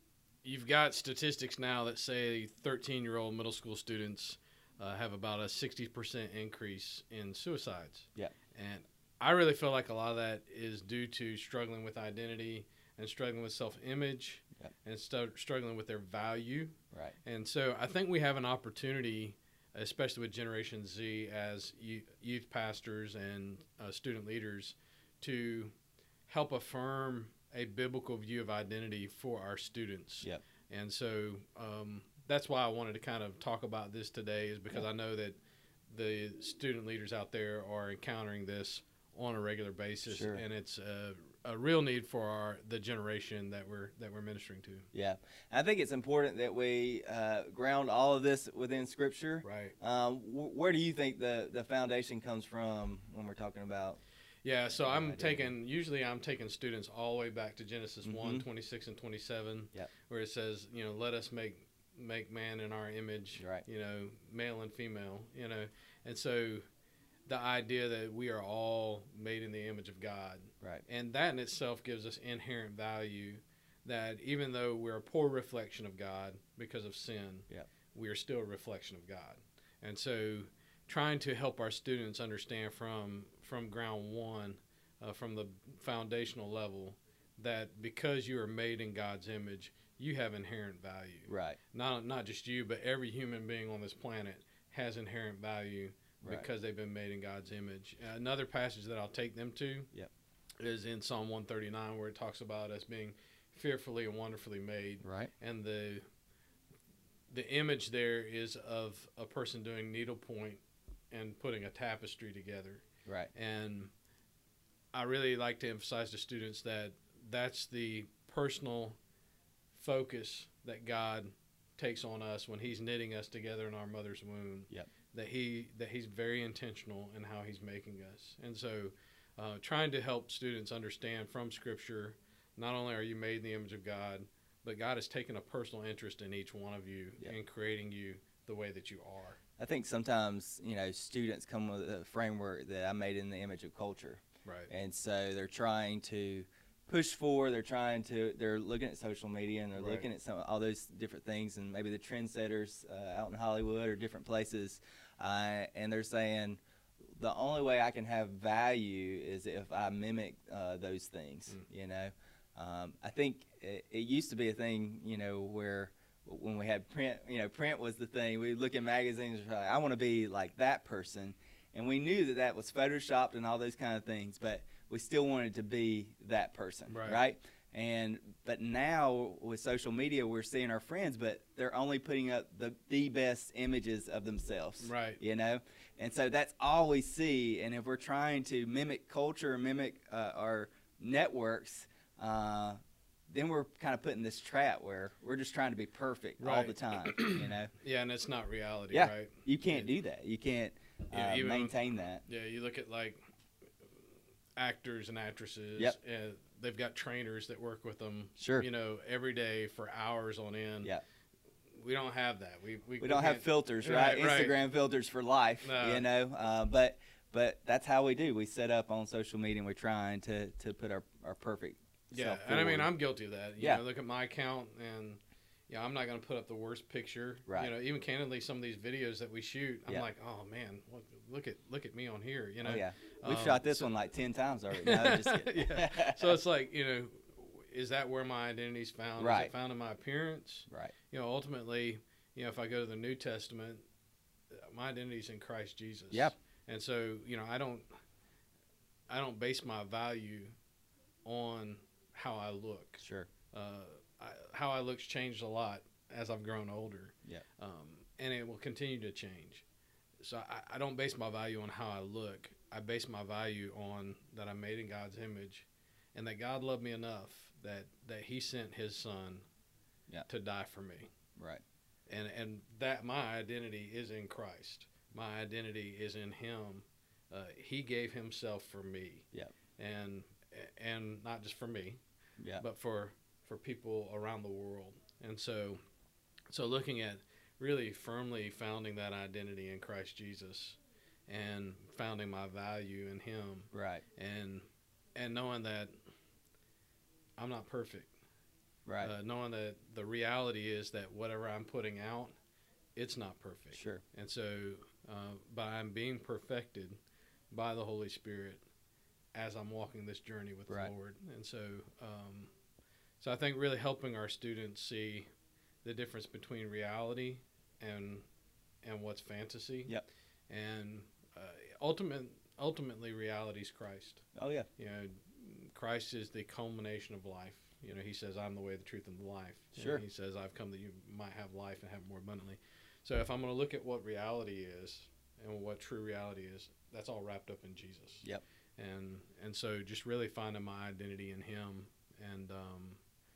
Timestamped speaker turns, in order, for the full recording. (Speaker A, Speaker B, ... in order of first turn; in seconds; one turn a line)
Speaker A: 0.4-25.7
Speaker A: 26.3-44.9
Speaker B: 40.1-40.4
Speaker B: 44.9-54.0
Speaker A: 49.4-49.8
Speaker A: 54.4-66.6
Speaker B: 54.7-55.5
Speaker B: 58.0-58.5
Speaker B: 63.4-63.6
Speaker A: 67.2-99.9
Speaker B: 91.3-91.6
Speaker B: 96.2-96.5
Speaker A: 100.6-106.0
Speaker B: 105.0-105.3
Speaker A: 107.3-113.9
Speaker B: 113.0-113.3
Speaker A: 114.9-119.0
Speaker A: 119.7-139.4
Speaker B: 139.6-156.6
Speaker A: 144.4-144.7
Speaker A: 149.7-150.1
Speaker B: 157.1-192.8
Speaker A: 176.9-177.2
Speaker A: 184.8-185.2
Speaker B: 193.3-197.7
Speaker A: 196.4-199.9
Speaker B: 198.9-202.2
Speaker A: 201.1-201.8
Speaker A: 202.3-203.2
Speaker A: 204.6-210.9
Speaker B: 208.4-208.7
Speaker A: 211.7-214.6
Speaker B: 213.0-222.9
Speaker A: 215.6-216.1
Speaker A: 222.1-233.9
Speaker B: 232.6-236.4
Speaker A: 234.7-243.8
Speaker B: 239.2-239.5
Speaker B: 240.7-240.9
Speaker A: 244.6-247.9
Speaker A: 249.1-250.5
Speaker A: 251.2-259.6
Speaker B: 253.0-253.3
Speaker A: 260.2-269.4
Speaker A: 270.3-271.1
Speaker B: 271.4-271.6
Speaker A: 272.1-279.3
Speaker A: 279.8-282.0
Speaker A: 282.6-285.8
Speaker A: 286.5-295.9
Speaker B: 293.7-294.0
Speaker A: 297.4-298.1
Speaker B: 298.9-299.1
Speaker A: 299.0-302.3
Speaker A: 302.9-307.0
Speaker B: 303.7-304.0
Speaker A: 307.5-308.6
Speaker A: 309.3-312.5
Speaker A: 313.2-315.3
Speaker A: 315.8-318.2
Speaker A: 318.8-319.9
Speaker A: 320.5-324.2
Speaker B: 324.4-324.7
Speaker A: 324.8-338.2
Speaker B: 329.8-330.0
Speaker A: 338.8-343.0